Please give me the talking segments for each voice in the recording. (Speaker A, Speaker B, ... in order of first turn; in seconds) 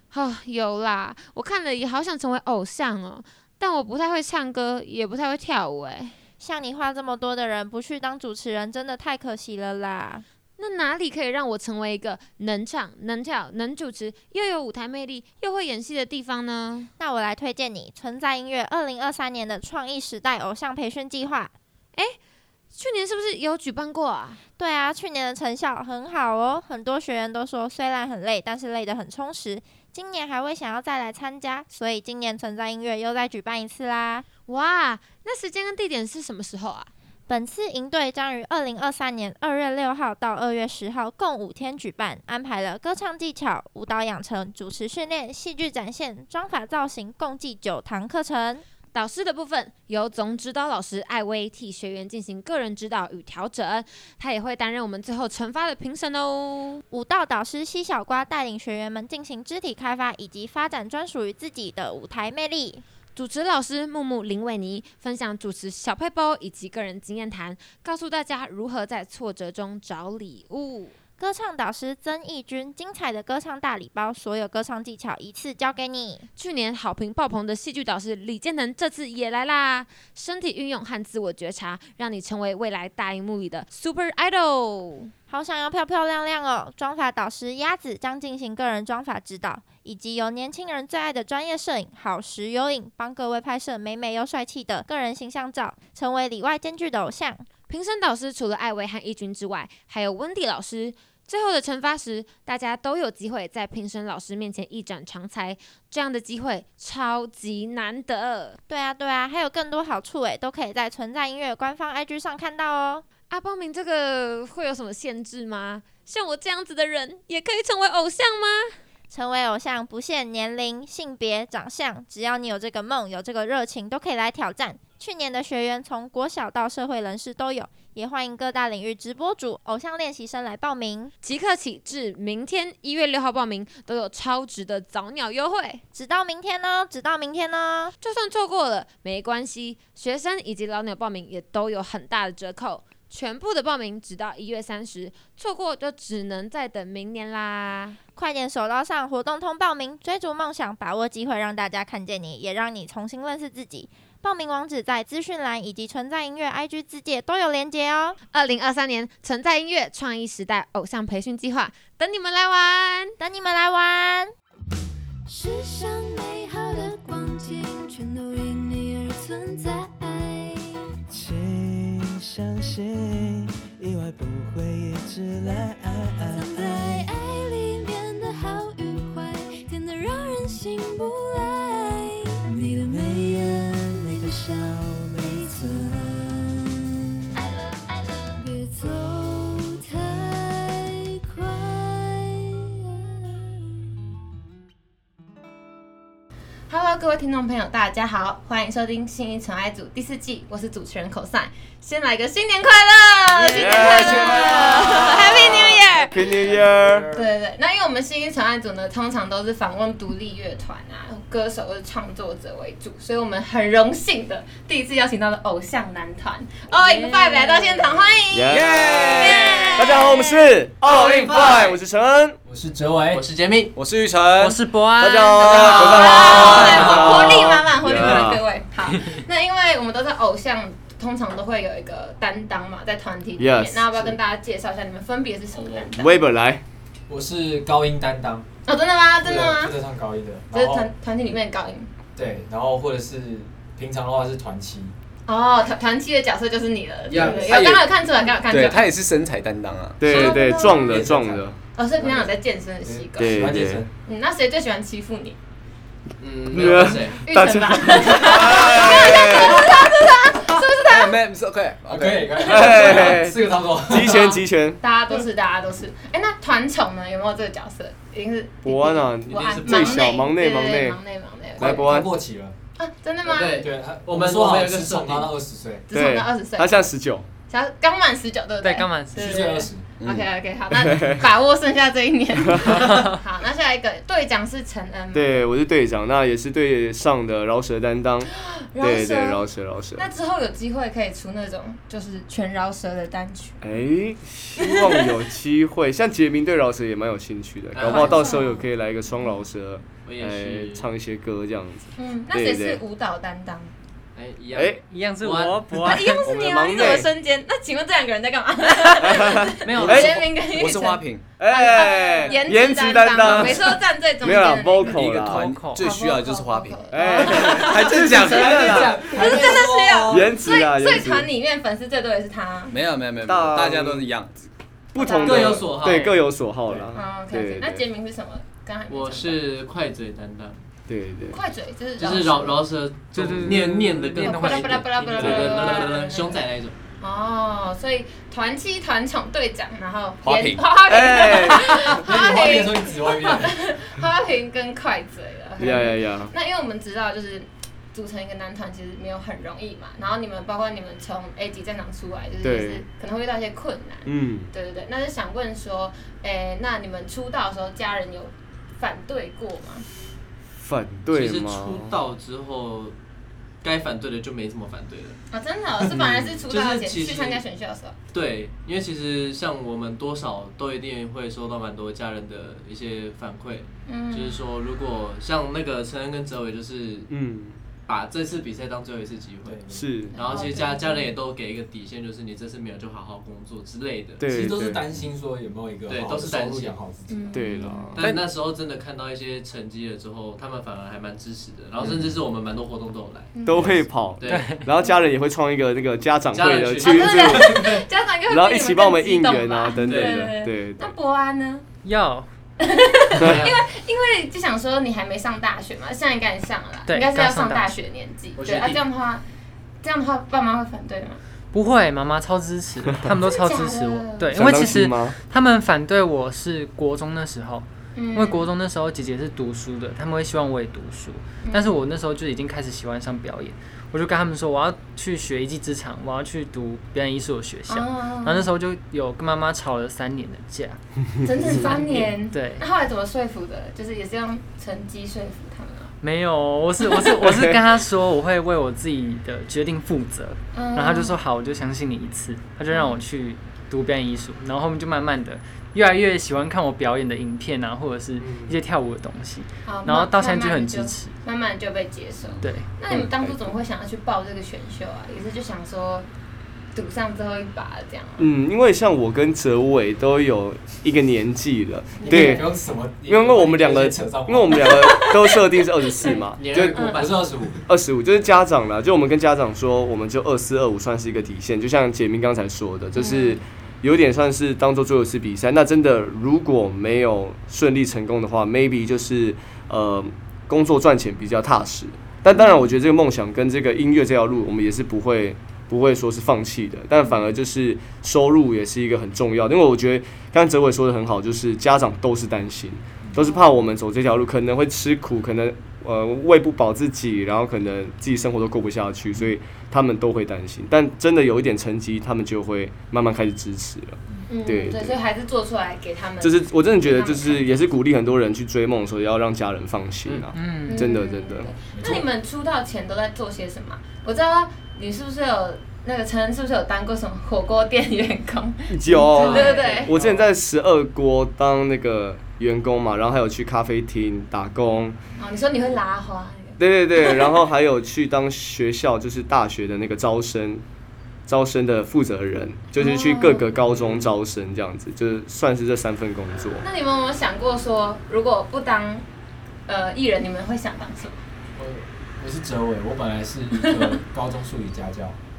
Speaker A: 0.1-6.2, 10.6-16.9, 22.7-24.4, 34.5-36.9, 48.9-56.8, 63.1-70.9, 76.3-85.1, 97.7-108.6, 113.3-118.8, 131.2-135.8, 138.0-148.0, 158.3-163.2, 203.8-204.4, 205.1-206.0
Speaker B: 6.4-10.2, 17.0-21.5, 24.6-34.2, 37.3-48.6, 56.9-62.8, 71.2-76.3, 85.3-97.5, 108.7-113.0, 119.1-131.1, 135.9-137.9, 148.1-158.2, 163.2-164.3
Speaker C: 165.2-170.9, 175.4-186.5, 187.3-192.6
Speaker D: 171.1-177.1, 182.6-185.6
Speaker E: 196.7-206.1, 207.1-220.5, 225.4-236.2, 238.7-239.8, 240.5-241.9, 245.2-248.8, 250.0-251.2, 251.7-255.4, 257.3-261.2, 262.4-263.2, 264.1-272.1, 272.8-273.7, 275.9-276.9, 277.5-285.4, 288.4-289.4, 290.0-293.6, 294.6-295.1, 297.8-298.7, 302.0-303.7, 305.8-315.2, 315.7-318.5, 319.1-322.8, 325.0-325.7, 326.9-329.4, 331.3-332.6, 334.2-336.4, 337.0-359.8, 365.3-367.9, 373.9-374.4, 380.1-381.1, 387.1-388.0, 393.3-393.8, 396.8-401.6, 402.6-409.2, 409.8-411.2, 413.2-414.5, 417.9-418.5, 421.4-421.8, 427.7-428.5, 431.2-435.9, 440.5-441.2, 442.7-443.0, 449.6-456.1, 456.7-458.2, 462.0-462.4, 464.6-465.4, 466.0-467.1, 472.9-473.4, 482.3-482.7, 504.3-507.5, 510.6-519.9, 525.2-527.3, 532.7-533.5, 536.6-539.0, 539.7-541.1, 543.6-543.9
Speaker F: 203.3-207.1, 218.3-222.4, 225.0-228.4, 233.4-234.1, 235.9-236.6, 250.0-251.5, 253.2-253.8, 256.5-259.8, 262.4-264.8, 268.6-271.0, 271.6-272.1, 275.9-277.3, 280.9-281.2, 285.1-290.1, 293.6-302.8, 304.5-304.8, 305.9-307.1, 308.8-310.3, 311.4-315.5, 316.9-319.3, 320.1-321.3, 323.2-324.1, 324.9-327.8, 330.9-331.4, 335.2-335.5, 340.9-342.0, 345.6-346.3, 352.4-352.8, 354.1-354.5, 360.6-362.0, 365.9-366.4, 377.1-377.6, 379.7-380.2, 384.2-384.9, 387.3-388.2, 393.4-400.9, 414.3-415.1, 437.1-437.6, 452.9-453.4, 458.2-462.5, 463.1-466.9, 467.7-504.9, 506.2-511.5, 518.7-525.0, 526.6-530.6, 531.3-536.6
Speaker G: 205.7-207.3, 222.4-223.2, 226.4-227.2, 237.1-238.5, 239.2-240.9, 242.2-244.9, 247.1-247.6, 250.1-252.3, 252.8-253.9, 261.9-264.3, 271.6-272.5, 273.6-275.8, 279.1-279.9, 318.2-320.3, 341.9-343.6, 379.4-379.9, 384.2-387.6, 462.0-464.8, 466.5-467.6, 511.7-512.1, 519.1-520.0, 541.5-545.2
Speaker H: 216.8-218.0, 224.3-226.3, 278.6-279.6, 304.9-306.3, 309.6-310.0, 315.2-315.9, 333.1-335.8, 394.2-394.7, 401.8-402.3, 406.9-407.7, 411.5-430.8, 431.5-432.6, 436.0-451.1, 452.4-452.7, 510.3-510.9
Speaker I: 218.5-219.7, 223.7-224.6, 227.8-228.2, 247.1-247.8, 248.5-250.1, 260.9-262.3, 309.8-311.4, 313.2-313.5, 314.9-318.6, 322.7-324.3, 340.2-340.7
Speaker J: 220.9-221.7, 223.1-223.7, 226.3-226.8, 256.2-257.2, 269.3-270.1, 273.2-275.3, 297.7-298.4, 300.0-300.9, 304.1-305.8, 309.7-310.0, 325.2-326.2, 328.9-330.6, 332.0-336.7, 361.1-362.9, 363.6-365.2, 366.5-367.4, 368.1-377.1, 377.9-379.6, 380.1-384.2, 385.9-386.8, 387.9-393.3, 394.2-394.5, 396.3-397.8, 399.8-400.3, 403.1-403.6, 408.4-408.8, 448.2-448.6, 466.1-467.5, 533.8-534.0